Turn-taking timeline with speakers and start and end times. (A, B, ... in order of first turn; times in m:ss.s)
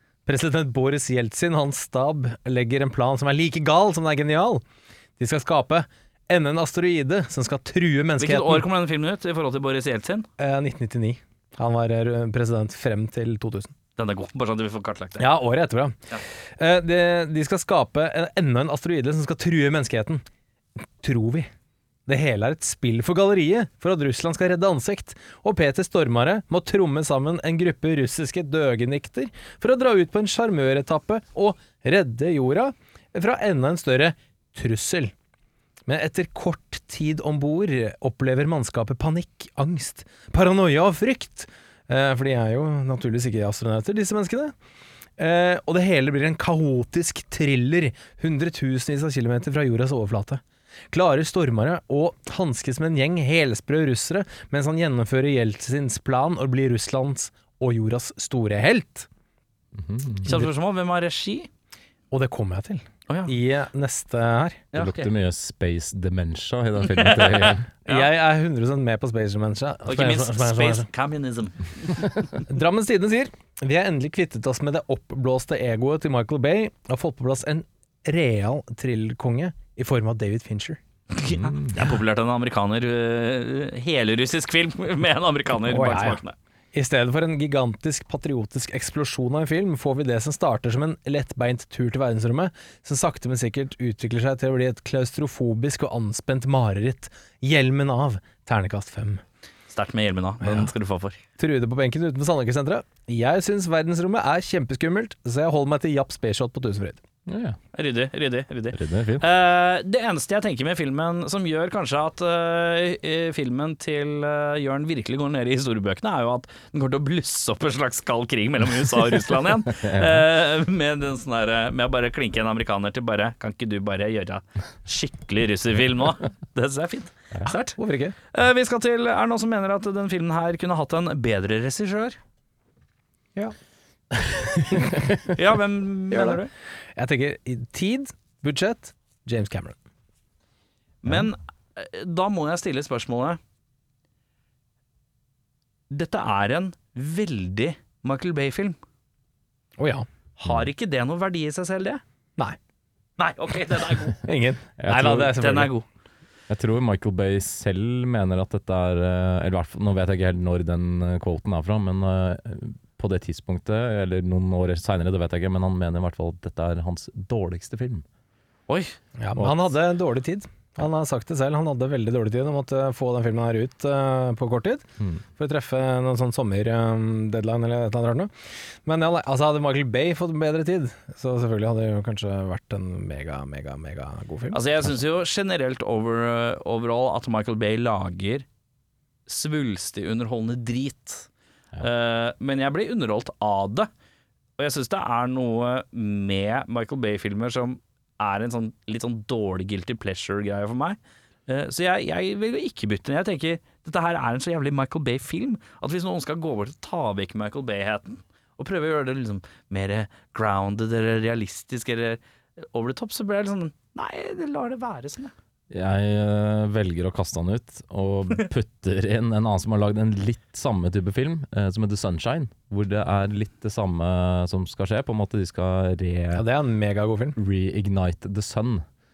0:00.3-0:04.6 A
0:05.2-0:08.7 A
0:08.2-0:10.3 B
0:10.4-0:13.7 A
0:14.0-0:15.3 B
0:15.2-0:16.0 A
0:16.6-0:20.2 A
0:20.8-0:21.5 A
0:22.1-0:35.1 A
0:35.9-0:44.5 A
0:45.2-0:59.1 A
0:59.8-1:00.3 C
1:00.2-1:01.5 B
1:02.1-1:04.6 A
1:03.1-1:03.3 B
1:04.7-1:05.1 B
1:04.7-1:07.7 C
1:06.8-1:08.1 B
1:07.9-1:10.9 A
1:09.9-1:12.2 B
1:12.5-1:20.8 A
1:21.1-1:26.4 B
1:21.2-1:21.8 C
1:25.7-1:26.2 A
1:26.7-1:39.2 A
1:39.7-1:41.2 B
1:40.4-1:40.7 A
1:41.4-1:47.0 A
1:47.3-1:47.6 C
1:47.7-2:07.8 B
1:48.7-1:49.2 C
1:59.8-2:00.2 C
2:07.8-2:08.2 A
2:08.3-2:12.2 B
2:15.3-2:16.5 B
2:16.1-2:16.4 A
2:17.0-2:19.8 A
2:21.0-2:23.4 B
2:25.9-2:28.8 B
2:29.8-2:30.1 A
2:30.4-2:32.0 B
2:33.2-2:34.2 B
2:34.2-2:35.7 A
2:34.8-2:35.4 C
2:35.3-2:35.8 B
2:36.5-2:48.0 C
2:48.7-2:49.0 B
2:49.2-2:54.9 A
2:49.4-2:49.6 C
2:55.4-2:58.3 A
2:58.8-3:04.6 A
3:04.5-3:08.5 B
3:09.3-3:11.3 B
3:11.8-3:13.9 B
3:14.6-3:35.3 B
3:35.7-3:46.4 C
3:46.3-3:47.4 A
3:47.4-3:48.8 C